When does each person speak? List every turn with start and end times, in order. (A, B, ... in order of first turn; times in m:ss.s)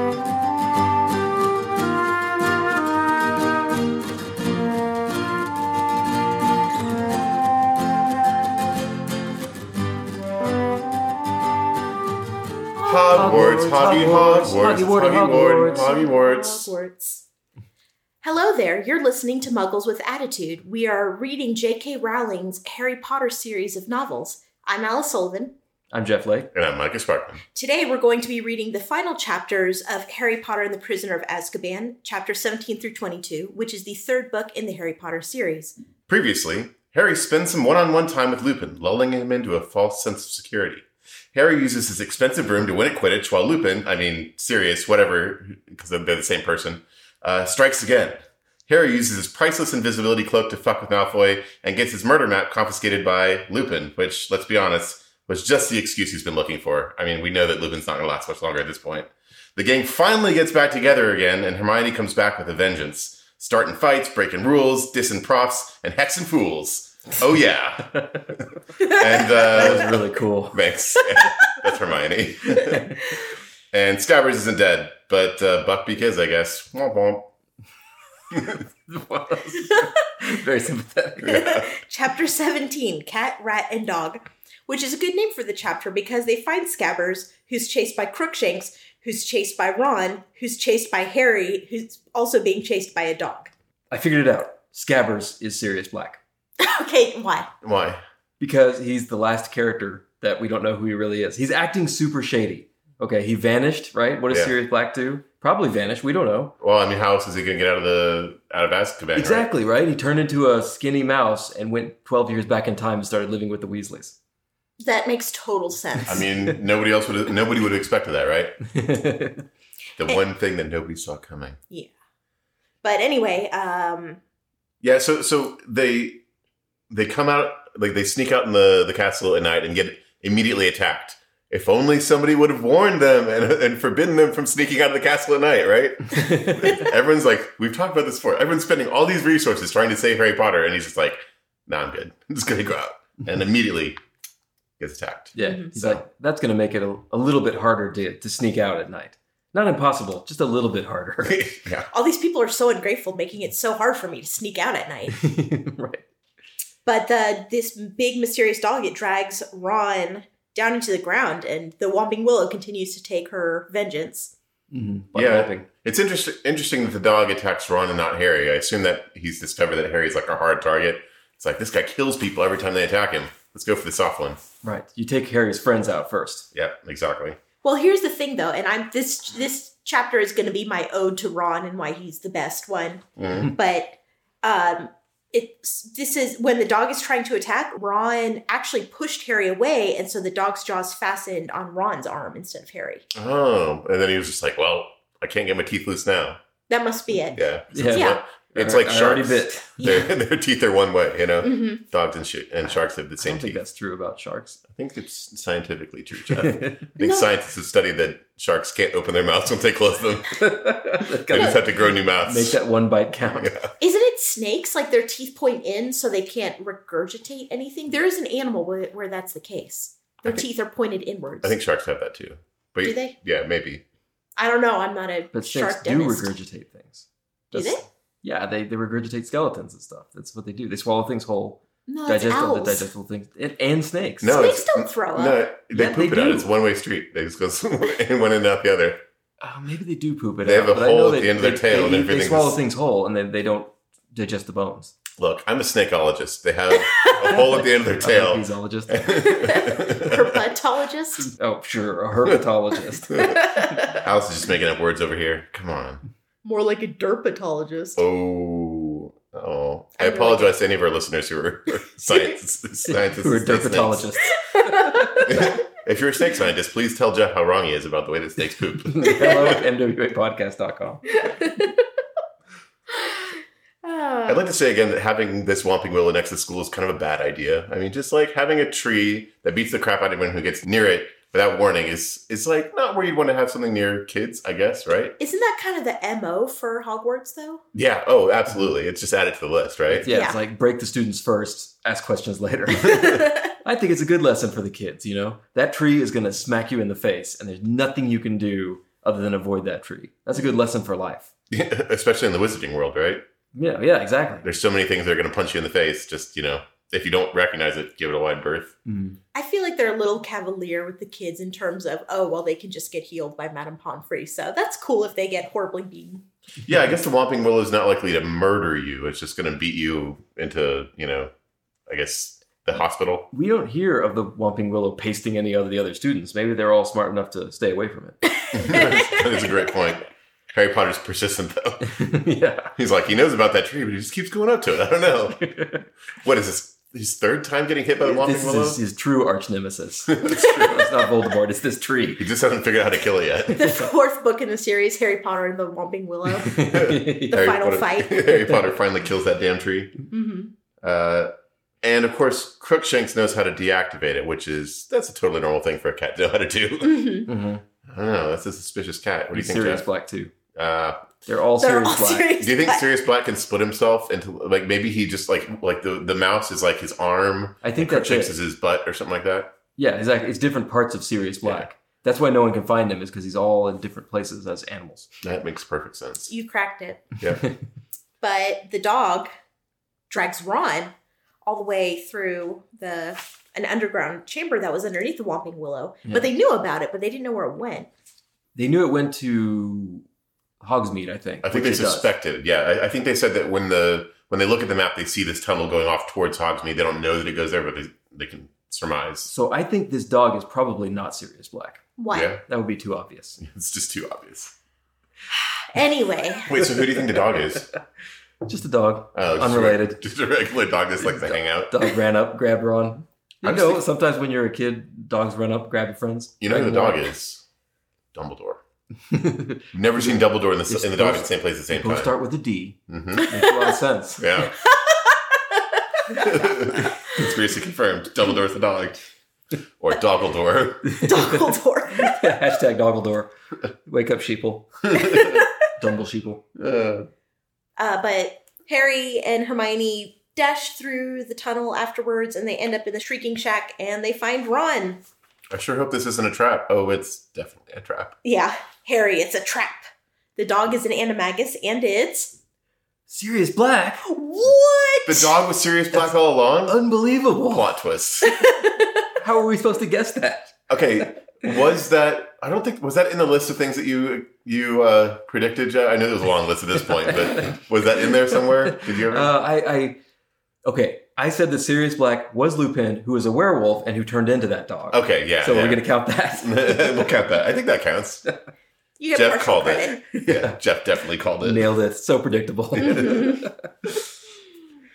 0:12.8-0:14.4 A
0:12.8-0:16.7 B
0:13.1-0:15.9 C
0:15.4-0:17.2 A
0:18.2-0:25.5 A
0:25.9-0:26.5 C
0:26.5-0:27.4 B
0:27.5-0:35.8 A
0:36.1-1:12.9 B
1:07.9-1:08.3 C
1:08.8-1:09.6 A
1:09.4-1:10.6 C
1:11.0-1:11.5 A
1:12.5-1:13.0 C
1:13.7-1:17.3 B
1:18.3-1:18.6 B
1:18.9-1:21.6 C
1:21.2-1:21.7 B
1:21.3-1:33.5 A
1:33.9-1:36.2 C
1:36.6-1:37.5 A
1:37.6-1:38.0 B
1:38.4-1:46.6 C
1:46.6-1:49.5 B
1:49.2-1:54.2 C
1:54.8-1:56.2 A
1:56.1-1:58.6 B
1:58.7-1:59.4 C
2:00.0-2:01.6 B
2:02.8-2:04.2 A
2:04.8-2:06.2 B
2:06.9-2:24.0 B
2:16.1-2:16.9 C
2:24.8-2:26.0 B
2:25.4-2:31.5 C
2:25.4-2:25.8 A
2:31.2-2:31.9 B
2:31.9-2:35.2 A
2:35.1-2:36.0 C
2:36.9-2:44.3 A
2:44.7-2:45.7 C
2:45.1-2:54.4 B
2:54.6-2:56.5 C
2:56.5-2:57.4 B
2:57.6-3:13.1 A
3:03.2-3:03.5 B
3:13.1-3:16.4 B
3:16.7-3:18.2 A
3:17.3-3:23.6 B
3:17.7-3:19.8 C
3:19.8-3:20.1 A
3:21.4-3:21.8 A
3:23.2-3:24.6 C
3:24.7-3:30.5 B
3:26.4-3:26.8 C
3:27.0-3:27.3 A
3:30.3-3:33.5 C
3:31.3-3:32.6 B
3:33.3-3:33.7 B
3:33.8-3:41.6 A
3:41.4-3:43.8 B
3:42.8-3:43.2 A
3:44.4-3:46.4 A
3:45.3-3:54.5 C
3:47.5-3:47.8 A
3:51.9-3:52.9 A
3:54.2-3:59.0 B
3:54.2-3:55.4 A
3:55.7-3:56.5 C
3:59.4-4:05.0 C
4:00.4-4:02.6 B
4:05.2-4:10.4 B
4:06.9-4:07.3 A
4:07.3-4:09.1 C
4:09.2-4:11.3 A
4:11.3-4:13.4 C
4:13.1-4:16.0 B
4:13.3-4:14.0 A
4:16.4-4:18.0 A
4:18.0-4:24.1 B
4:20.0-4:20.6 A
4:22.9-4:25.3 C
4:24.3-4:25.6 A
4:25.2-4:29.6 B
4:28.8-4:31.2 C
4:29.1-4:29.4 A
4:31.2-4:31.8 A
4:32.9-4:34.4 A
4:34.3-4:45.2 B
4:45.2-4:47.6 A
4:47.8-4:50.1 B
4:49.9-5:01.3 C
4:50.1-4:50.4 A
4:52.8-4:53.5 A
5:01.5-5:03.2 B
5:03.5-5:04.5 C
5:04.4-5:08.8 B
5:08.8-5:09.2 C
5:09.3-5:16.2 A
5:16.6-5:21.3 B
5:21.9-5:23.3 B
5:23.3-5:28.2 C
5:28.3-5:29.6 A
5:28.5-5:31.8 B
5:31.8-5:32.7 C
5:32.8-5:35.4 B
5:35.4-5:35.9 C
5:36.2-5:38.8 B
5:38.0-5:42.3 C
5:40.1-5:40.9 B
5:42.2-5:43.8 B
5:43.5-5:46.7 A
5:46.4-5:47.5 C
5:46.6-5:50.0 B
5:47.3-5:48.4 A
5:48.2-5:48.6 C
5:50.1-5:50.5 A
5:50.8-5:51.3 B
5:51.8-5:57.1 B
5:56.8-5:57.3 A
5:57.3-5:57.6 C
5:57.8-5:59.8 B
5:59.3-6:00.3 C
6:00.5-6:01.1 B
6:01.3-6:02.3 C
6:01.6-6:02.9 A
6:02.4-6:09.5 B
6:07.6-6:08.3 C
6:09.8-6:15.1 C
6:11.4-6:11.7 B
6:15.2-6:16.3 B
6:16.3-6:17.2 A
6:18.2-6:19.3 A
6:20.1-6:20.9 A
6:21.4-6:27.9 A
6:26.0-6:26.3 C
6:28.6-6:30.0 C
6:30.6-6:32.1 C
6:31.4-6:39.3 B
6:39.3-6:41.8 C
6:42.0-6:42.3 A
6:42.1-6:42.4 B
6:42.5-6:43.4 C
6:43.4-6:44.6 B
6:45.3-6:46.8 A
6:46.5-6:47.7 B
6:48.4-6:50.0 C
6:49.1-6:51.9 B
6:51.1-6:57.1 C
6:53.4-6:53.8 B
6:56.4-6:57.4 B
6:58.1-6:58.6 B
6:59.1-7:04.5 C
6:59.7-7:02.1 B
7:02.9-7:03.3 B
7:03.2-7:03.8 A
7:04.2-7:04.6 B
7:04.6-7:06.4 A
7:06.1-7:09.0 B
7:09.8-7:10.9 B
7:10.8-7:13.3 C
7:11.0-7:12.4 A
7:13.8-7:16.4 C
7:14.9-7:15.4 B
7:15.1-7:15.5 A
7:16.6-7:17.1 B
7:17.8-7:25.0 A
7:25.5-7:28.2 B
7:28.2-7:29.8 A
7:30.4-7:32.4 A
7:33.1-7:34.0 C
7:34.0-7:35.3 A
7:35.1-7:36.8 B
7:36.7-7:37.7 C
7:37.4-7:38.4 B
7:38.2-7:39.1 A
7:39.2-7:40.6 C
7:40.7-7:49.3 B
7:47.1-7:47.6 C
7:48.4-7:50.0 C
7:50.6-7:57.1 C
7:54.9-7:58.2 B
7:59.0-8:00.0 A
7:59.1-8:01.7 B
8:00.1-8:00.6 C
8:01.4-8:03.9 C
8:02.8-8:03.5 A